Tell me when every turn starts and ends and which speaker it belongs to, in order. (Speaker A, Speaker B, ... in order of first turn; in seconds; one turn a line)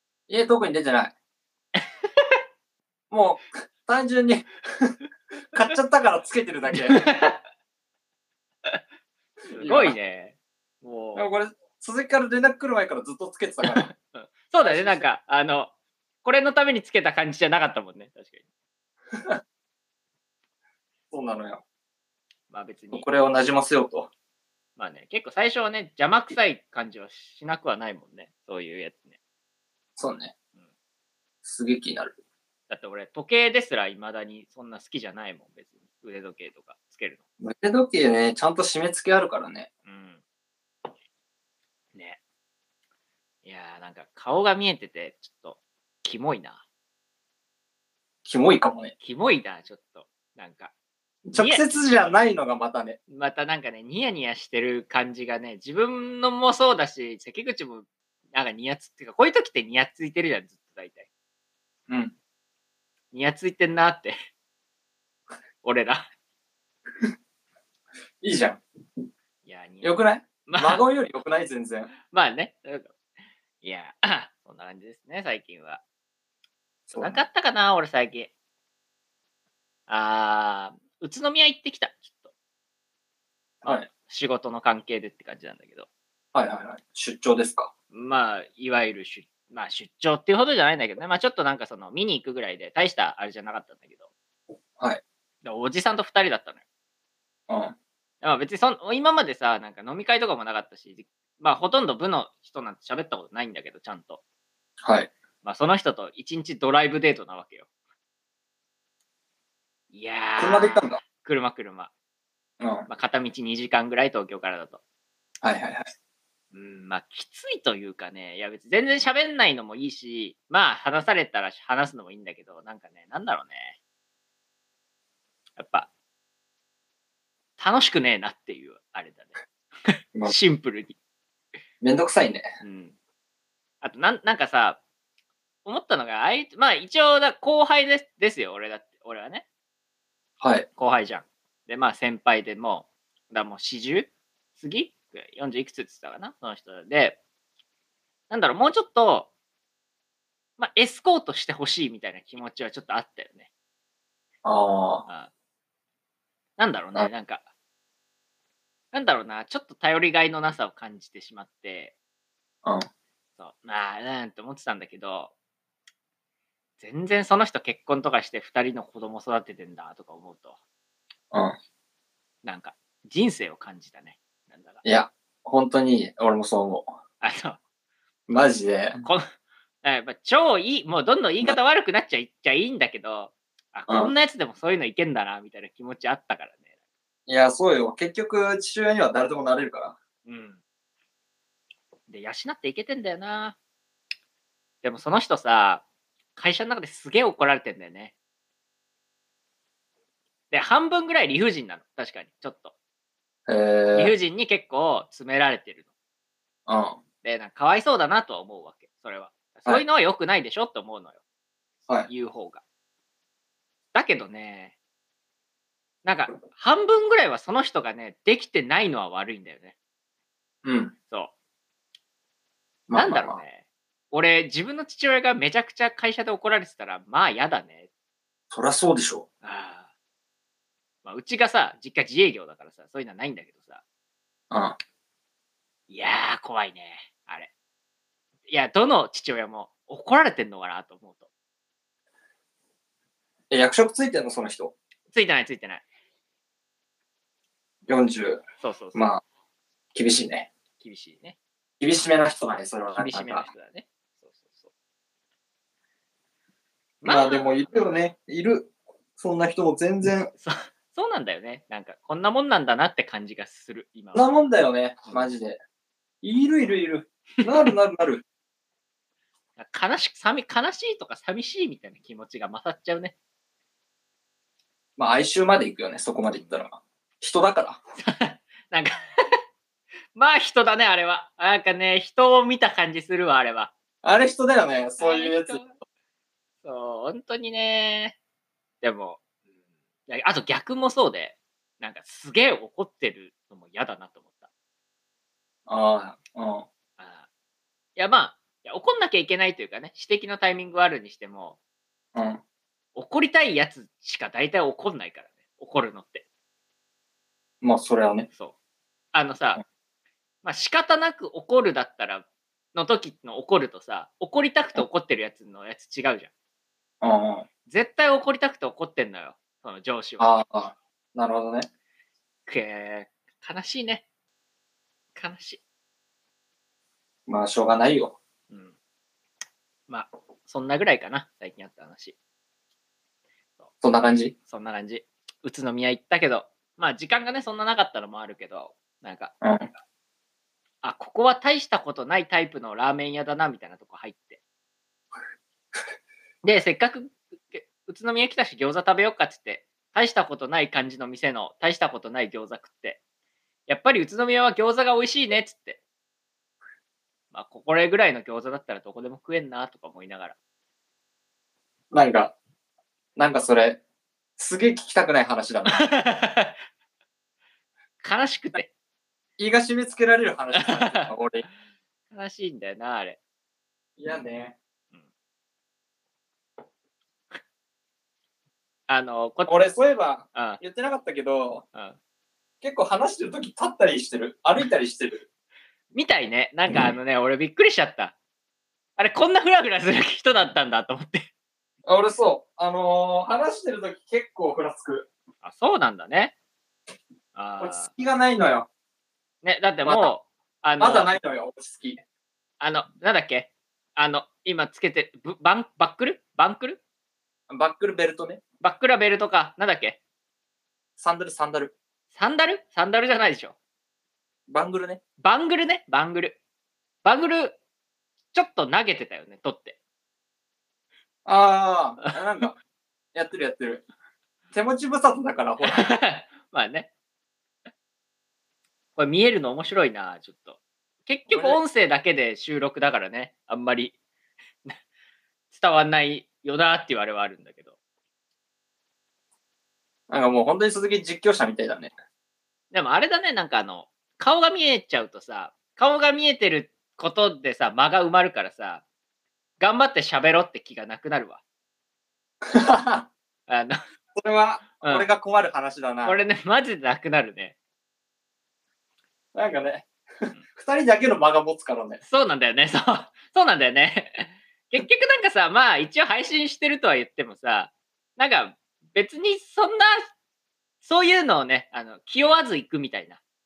Speaker A: 0.3-1.1
Speaker B: 1.8-2.3
Speaker A: 3.1-5.0
Speaker A: 5.5-7.2
Speaker B: 6.7-7.4
Speaker A: 9.5-9.9
Speaker B: 9.5-11.3
Speaker A: 11.1-13.9
Speaker B: 13.6-15.7
Speaker A: 14.6-15.1
Speaker B: 16.2-18.4
Speaker A: 19.1-19.4
Speaker A: 21.1-21.6
Speaker B: 22.5-23.0
Speaker A: 22.9-24.1
Speaker B: 24.8-29.1
Speaker A: 30.0-30.3
Speaker A: 31.4-32.2
Speaker B: 32.7-37.2
Speaker A: 37.4-39.7
Speaker B: 39.9-40.2
Speaker B: 43.4-46.6
Speaker A: 48.2-48.9
Speaker B: 49.0-50.7
Speaker A: 51.3-53.0
Speaker B: 51.3-51.8
Speaker B: 53.1-61.1
Speaker A: 61.9-62.1
Speaker B: 63.1-64.1
Speaker B: 65.6-66.0
Speaker A: 68.2-68.6
Speaker B: 69.4-70.8
Speaker A: 69.8-71.9
Speaker B: 72.1-72.9
Speaker B: 73.6-75.8
Speaker A: 76.9-77.2
Speaker B: 76.9-78.3
Speaker B: 79.9-82.3
Speaker B: 83.6-85.9
Speaker A: 86.3-87.7
Speaker B: 87.9-94.0
Speaker B: 95.4-96.6
Speaker A: 97.5-97.7
Speaker B: 98.2-104.2
Speaker A: 104.8-105.1
Speaker B: 105.4-107.7
Speaker B: 109.9-111.9
Speaker A: 110.4-111.0
Speaker A: 112.6-112.9
Speaker B: 112.9-114.8
Speaker A: 115.4-115.8
Speaker B: 116.5-123.8
Speaker B: 125.6-125.9
Speaker B: 127.6-129.3
Speaker B: 129.9-130.9
Speaker A: 131.8-132.5
Speaker B: 132.6-132.9
Speaker B: 133.8-134.8
Speaker B: 135.6-139.4
Speaker A: 140.4-140.7
Speaker B: 140.8-147.2
Speaker B: 148.3-149.3
Speaker B: 150.6-153.5
Speaker A: 154.4-155.0
Speaker B: 156.6-157.4
Speaker B: 158.9-161.9
Speaker B: 163.4-165.3
Speaker B: 166.8-170.6
Speaker B: 172.4-174.8
Speaker A: 174.8-176.9
Speaker B: 177.2-177.6
Speaker A: 178.3-179.0
Speaker B: 179.8-186.6
Speaker A: 187.3-189.9
Speaker B: 190.2-190.6
Speaker B: 192.1-193.6
Speaker B: 194.8-195.8
Speaker B: 196.3-198.1
Speaker B: 200.5-202.7
Speaker A: 203.5-204.1
Speaker B: 203.9-205.8
Speaker A: 206.7-207.0
Speaker B: 207.2-211.2
Speaker B: 212.1-212.6
Speaker B: 213.9-214.7
Speaker B: 216.0-219.7
Speaker A: 220.6-220.9
Speaker A: 222.9-223.4
Speaker B: 222.9-227.9
Speaker A: 228.5-229.2
Speaker B: 229.4-229.9
Speaker B: 231.0-233.8
Speaker A: 234.5-234.8
Speaker B: 235.9-237.5
Speaker B: 238.5-241.2
Speaker A: 243.5-244.7
Speaker B: 245.1-245.8
Speaker A: 247.9-248.4
Speaker B: 248.6-249.1
Speaker A: 248.9-249.2
Speaker A: 249.9-250.5
Speaker B: 250.8-251.3
Speaker A: 251.8-253.5
Speaker B: 252.9-254.7
Speaker B: 257.0-257.8
Speaker A: 257.0-260.3
Speaker B: 260.4-264.2
Speaker A: 264.1-265.6
Speaker A: 266.2-268.2
Speaker B: 269.6-273.1
Speaker A: 275.0-277.8
Speaker B: 278.0-279.3
Speaker B: 280.1-283.7
Speaker A: 284.0-285.6
Speaker B: 285.0-285.7
Speaker B: 286.6-288.2
Speaker B: 288.8-289.2
Speaker B: 290.1-294.4
Speaker A: 295.7-296.6
Speaker B: 297.0-297.2
Speaker B: 297.9-301.6
Speaker A: 302.1-302.4
Speaker B: 302.9-306.2
Speaker A: 307.6-308.3
Speaker B: 309.1-309.6
Speaker B: 310.4-316.3
Speaker A: 317.0-317.4
Speaker B: 317.7-320.4
Speaker A: 320.2-321.7
Speaker B: 322.4-324.0
Speaker B: 325.1-325.6
Speaker A: 327.3-328.2
Speaker B: 329.9-332.1
Speaker A: 333.8-334.3
Speaker B: 334.5-339.3
Speaker A: 339.4-339.7
Speaker B: 340.8-344.4
Speaker B: 346.4-353.0
Speaker B: 353.7-355.8
Speaker B: 357.3-360.3
Speaker A: 361.9-362.3
Speaker A: 363.1-363.8
Speaker A: 364.4-365.8
Speaker B: 365.6-366.6
Speaker B: 368.0-368.7
Speaker A: 369.4-371.4
Speaker B: 370.6-371.1
Speaker B: 372.1-373.2
Speaker A: 374.0-374.5
Speaker B: 378.9-379.7
Speaker A: 379.5-381.6
Speaker B: 380.3-380.6
Speaker A: 382.6-385.2
Speaker B: 385.9-388.1
Speaker B: 389.0-391.3
Speaker A: 391.8-395.1
Speaker B: 395.4-396.3
Speaker B: 397.3-397.9
Speaker A: 397.6-398.7
Speaker B: 399.4-401.1
Speaker A: 399.8-400.1
Speaker A: 400.8-402.0
Speaker B: 402.6-406.8
Speaker A: 407.5-408.4
Speaker B: 408.6-410.0
Speaker A: 411.0-411.7
Speaker B: 412.1-413.5
Speaker A: 414.5-415.0
Speaker B: 415.2-416.4
Speaker B: 417.0-417.6
Speaker B: 418.3-419.8
Speaker A: 421.2-422.5
Speaker A: 423.1-423.8
Speaker A: 424.5-426.0
Speaker B: 425.6-426.9
Speaker B: 428.9-433.9
Speaker A: 431.3-431.6
Speaker B: 435.5-437.7
Speaker A: 440.1-441.9
Speaker B: 442.7-448.8
Speaker B: 449.6-451.4
Speaker A: 452.4-453.1
Speaker B: 453.5-453.8
Speaker A: 454.1-456.2
Speaker B: 454.8-455.1
Speaker B: 456.0-457.5
Speaker A: 459.3-462.0
Speaker B: 462.1-470.1
Speaker B: 470.8-473.2